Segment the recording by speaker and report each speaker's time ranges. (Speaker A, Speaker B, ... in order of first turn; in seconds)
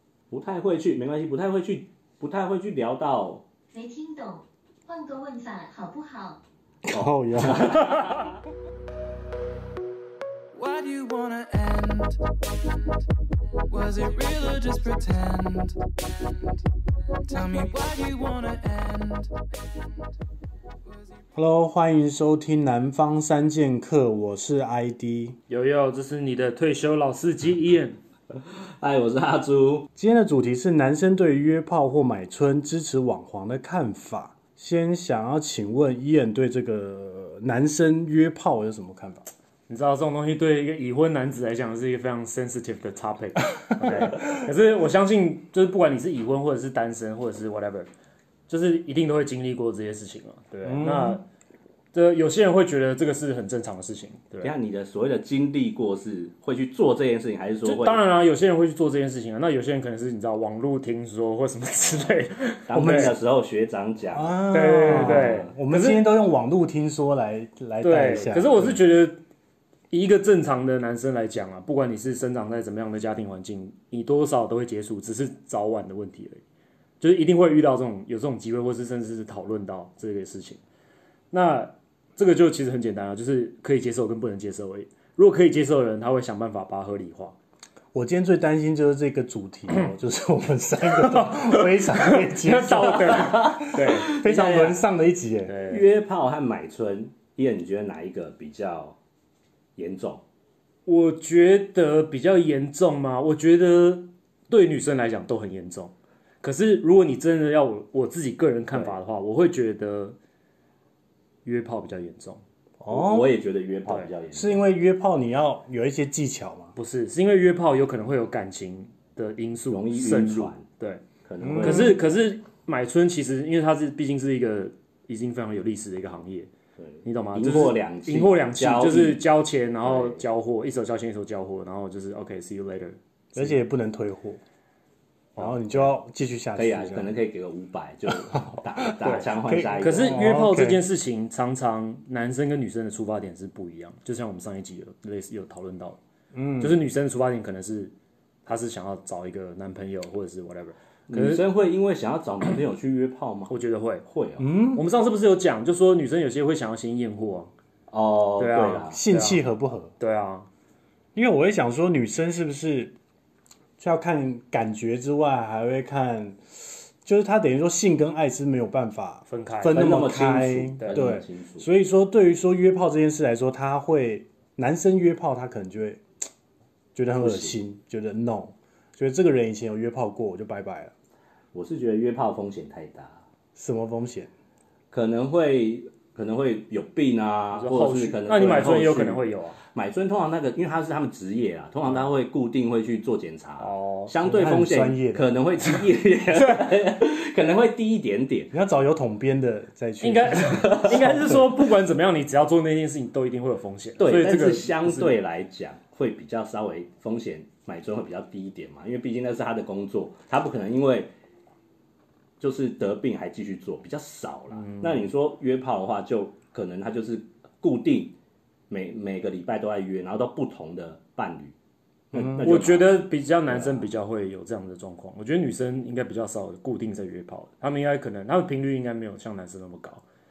Speaker A: 0.3-3.4, 6.9-8.4, 28.3-29.9, 54.4-58.0, 62.7-65.5, 93.0-94.8, 95.7-99.0, 99.8-100.2, 108.7-109.0, 112.9-114.6, 119.7-120.7, 121.2-122.0, 126.8-129.2, 129.8-130.2, 136.6-140.3, 151.1-153.5, 154.1-154.4, 157.9-159.0, 169.7-171.7, 177.2-177.6, 181.5-183.2, 184.9-198.5, 200.6-201.0, 204.0-211.1, 212.4-218.1, 218.7-221.5, 222.1-223.9
Speaker B: 3.7-6.4
Speaker C: 6.8-7.7, 21.3-25.4, 29.9-39.3, 43.8-44.4, 50.6-51.2, 62.7-63.1, 64.1-68.8, 87.9-95.5, 112.8-113.3, 114.3-116.7, 121.4-122.0, 133.3-134.4, 135.4-137.1, 138.5-140.8, 146.3-146.8, 154.4-154.8, 158.9-159.9, 161.1-162.9, 163.8-176.0, 176.9-180.9, 183.6-184.3, 194.2-195.3, 198.5-201.4, 222.1-222.5
Speaker D: 7.6-8.2, 25.5-28.0, 39.7-47.9, 48.5-51.2, 51.9-54.5, 57.6-63.1, 64.5-66.1, 67.8-69.2, 69.9-76.4, 77.0-80.6, 81.3-87.3, 91.2-94.2, 95.5-95.8, 100.8-110.2, 111.4-112.4, 116.8-121.0, 121.6-126.5, 127.0-133.5, 135.3-135.8, 139.0-146.0, 146.6-147.9, 148.4-151.4, 153.5-154.0, 154.7-157.5, 158.4-159.4, 160.0-160.5, 169.3-169.8, 170.8-171.1, 187.6-189.6, 193.6-194.1, 200.0-205.2, 214.6-215.1, 222.4-230.0
Speaker E: 10.5-13.0, 13.7-16.6, 17.2-20.1, 20.9-21.1